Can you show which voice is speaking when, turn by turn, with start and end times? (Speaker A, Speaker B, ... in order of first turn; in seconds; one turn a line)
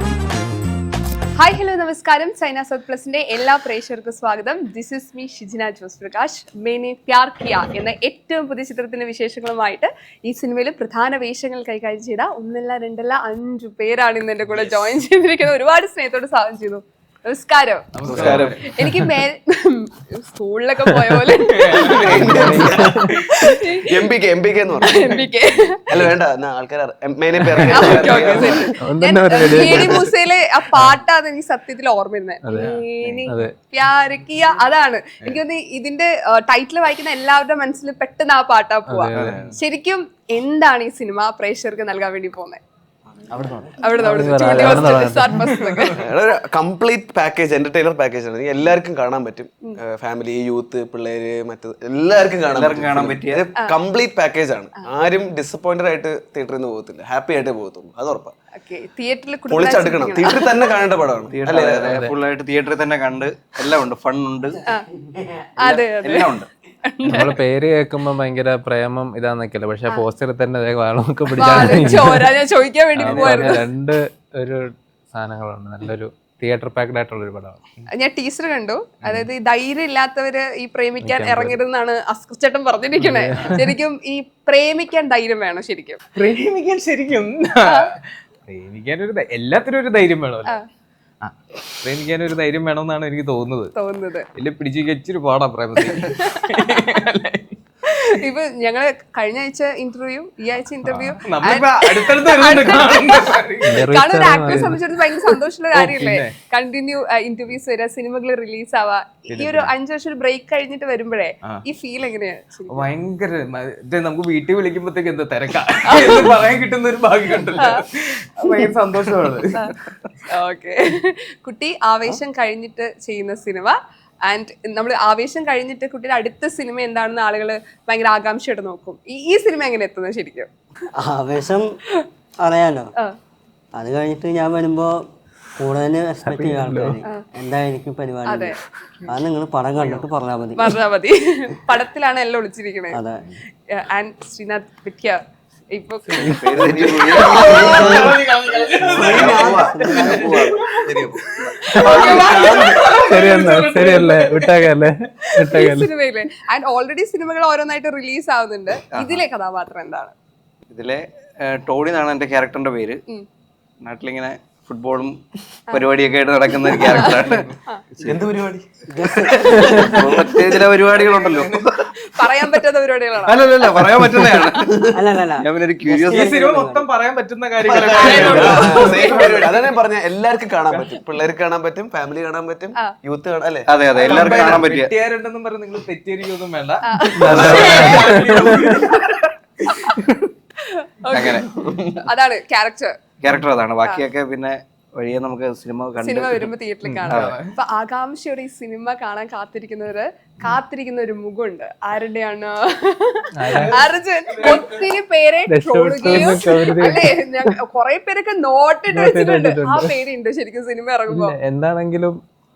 Speaker A: 1.4-22.2
Speaker B: 17.9-18.7
Speaker C: 18.1-18.7
Speaker D: 20.9-21.4
Speaker B: 21.4-23.6
Speaker C: 21.7-23.1
Speaker D: 22.1-23.1
Speaker A: 23.4-24.1
Speaker C: 23.7-25.1
Speaker A: 24.8-25.9
Speaker C: 25.9-28.8
Speaker D: 27.5-27.9
Speaker A: 27.6-42.6
Speaker B: 27.7-28.7
Speaker D: 28.8-30.1
Speaker C: 29.4-30.0
Speaker D: 32.5-32.7
Speaker B: 32.5-33.3
Speaker D: 33.3-33.5
Speaker D: 38.9-39.4
Speaker E: 39.1-39.5
Speaker B: 43.3-43.7
Speaker A: 43.8-46.0
Speaker D: 44.0-45.4
Speaker B: 45.4-46.0
Speaker C: 45.9-58.3
Speaker E: 52.5-53.5
Speaker A: 58.6-60.6
Speaker C: 59.5-62.0
Speaker E: 61.3-64.6
Speaker F: 64.7-65.5
Speaker E: 65.6-66.5
Speaker A: 65.6-67.4
Speaker D: 67.0-72.3
Speaker A: 71.4-73.6
Speaker D: 73.0-77.6
Speaker B: 73.0-73.6
Speaker A: 77.9-86.0
Speaker B: 79.0-79.3
Speaker D: 81.0-81.6
Speaker D: 83.0-83.7
Speaker B: 86.2-90.6
Speaker B: 91.2-93.7
Speaker A: 93.8-94.3
Speaker B: 94.3-97.6
Speaker A: 95.8-96.9
Speaker A: 97.9-112.9
Speaker D: 100.9-101.2
Speaker B: 101.2-103.9
Speaker D: 103.6-104.8
Speaker B: 105.7-106.3
Speaker B: 109.3-109.7
Speaker B: 112.7-119.8
Speaker A: 115.9-116.3
Speaker A: 117.6-117.8
Speaker A: 120.3-130.5
Speaker F: 130.9-131.7
Speaker F: 132.4-132.9
Speaker F: 133.8-135.0
Speaker F: 135.6-138.6
Speaker D: 136.3-137.0
Speaker A: 138.3-138.6
Speaker F: 139.1-140.7
Speaker A: 140.6-143.0
Speaker F: 142.9-143.2
Speaker A: 143.7-145.2
Speaker A: 145.7-146.4
Speaker C: 146.1-148.2
Speaker D: 146.2-146.9
Speaker E: 146.6-148.1
Speaker B: 147.1-154.6
Speaker A: 147.3-148.0
Speaker C: 148.8-150.3
Speaker E: 149.0-151.2
Speaker F: 149.1-150.2
Speaker A: 149.9-150.2
Speaker D: 151.7-152.2
Speaker A: 151.7-152.8
Speaker C: 151.8-152.9
Speaker D: 153.0-155.9
Speaker A: 155.4-160.1
Speaker E: 158.9-159.2
Speaker E: 160.7-163.0
Speaker E: 163.8-167.5
Speaker B: 167.3-167.5
Speaker C: 168.0-168.7
Speaker F: 168.9-170.1
Speaker C: 169.3-170.0
Speaker E: 169.3-171.9
Speaker B: 170.9-171.7
Speaker A: 172.1-173.5
Speaker E: 173.2-176.4
Speaker F: 174.8-176.9
Speaker B: 176.1-179.6
Speaker C: 177.6-184.6
Speaker E: 178.2-178.4
Speaker E: 183.7-184.9
Speaker B: 183.9-189.3
Speaker A: 186.8-188.2
Speaker D: 187.2-188.8
Speaker C: 187.2-188.0
Speaker E: 187.4-187.9
Speaker A: 189.7-190.0
Speaker A: 190.6-193.0
Speaker E: 191.1-191.5
Speaker C: 191.6-191.9
Speaker E: 193.2-196.5
Speaker A: 196.0-211.4
Speaker D: 196.8-197.1
Speaker B: 197.1-197.6
Speaker E: 197.1-197.4
Speaker D: 203.3-203.8
Speaker B: 203.5-204.6
Speaker D: 205.5-207.5
Speaker D: 208.9-209.9
Speaker D: 211.1-212.2